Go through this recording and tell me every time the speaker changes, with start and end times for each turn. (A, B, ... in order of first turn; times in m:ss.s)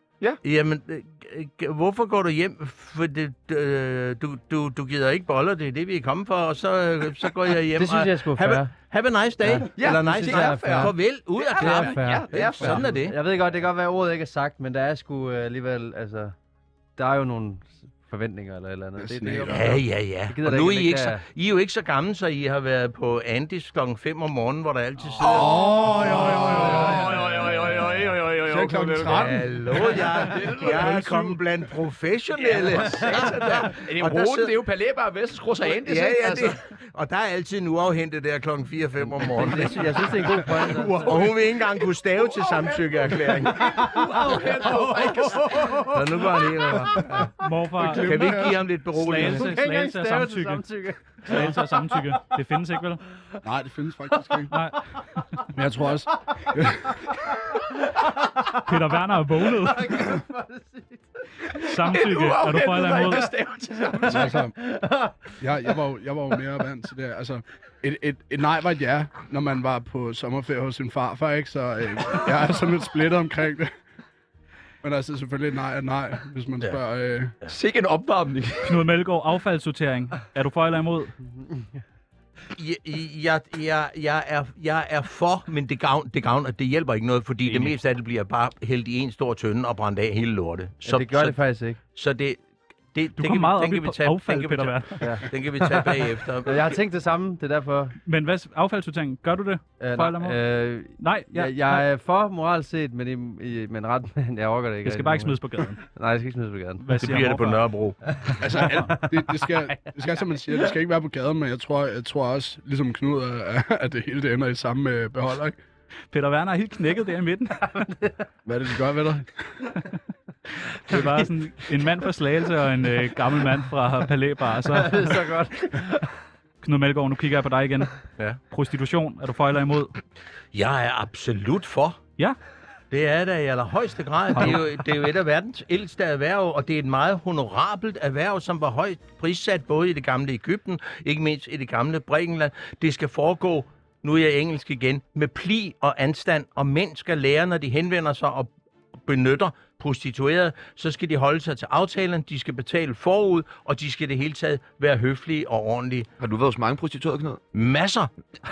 0:00.4-0:13.1 A
0:07.7-0:08.7 B
0:09.4-0:10.9 B
0:09.7-0:12.9 C
0:11.6-0:16.3 B
0:12.3-0:12.9 D
0:17.0-0:21.2 B
0:19.0-0:19.8 D
0:19.5-0:27.2 A
0:25.2-0:31.4 C
0:25.3-0:27.2 D
0:28.4-0:29.6 D
0:29.0-0:34.6 A
0:32.3-0:36.6 C
0:35.6-0:43.8 A
0:39.2-0:41.3 B
0:41.1-0:41.4 C
0:42.2-0:45.8 C
0:43.6-0:47.0 B
0:45.9-0:47.3 A
0:47.4-0:50.6 E
0:47.8-0:48.6 D
0:47.9-0:49.5 A
0:49.2-0:51.7 B
0:51.2-0:53.0 E
0:53.4-0:54.5 D
0:54.5-0:55.2 E
0:55.5-0:56.9 D
0:58.0-0:58.6 B
0:58.6-1:00.2 E
0:59.5-1:01.0 B
1:01.5-1:04.5 C
1:01.6-1:03.3 E
1:04.0-1:04.5 D
1:04.6-1:05.2 B
1:05.4-1:13.7 D
1:14.8-1:17.3 D
1:17.4-1:18.8 C
1:18.6-1:21.1 E
1:22.5-1:31.4 A
1:27.4-1:27.7 E
1:30.8-1:31.8 B
1:31.9-1:32.4 A
1:32.9-1:36.6 A
1:33.2-1:36.0 E
1:36.4-1:38.0 B
1:38.0-1:40.4 E
1:39.8-1:46.8 B
1:41.0-1:41.8 E
1:44.8-1:45.8 E
1:46.8-1:47.6 E
1:47.0-1:48.0 A
1:48.4-1:55.6 D
1:48.6-1:48.9 E
1:48.9-1:49.4 B
1:56.1-1:57.9 E
1:58.4-1:59.5 D
2:00.6-2:05.2 E
2:04.7-2:06.1 B
2:06.6-2:07.9 E
2:08.5-2:09.9 E
2:10.5-2:12.0 A
2:12.9-2:28.5 A
2:14.4-2:14.6 E
2:29.0-2:36.1 A
2:36.2-2:37.4 C
2:37.5-2:38.1 A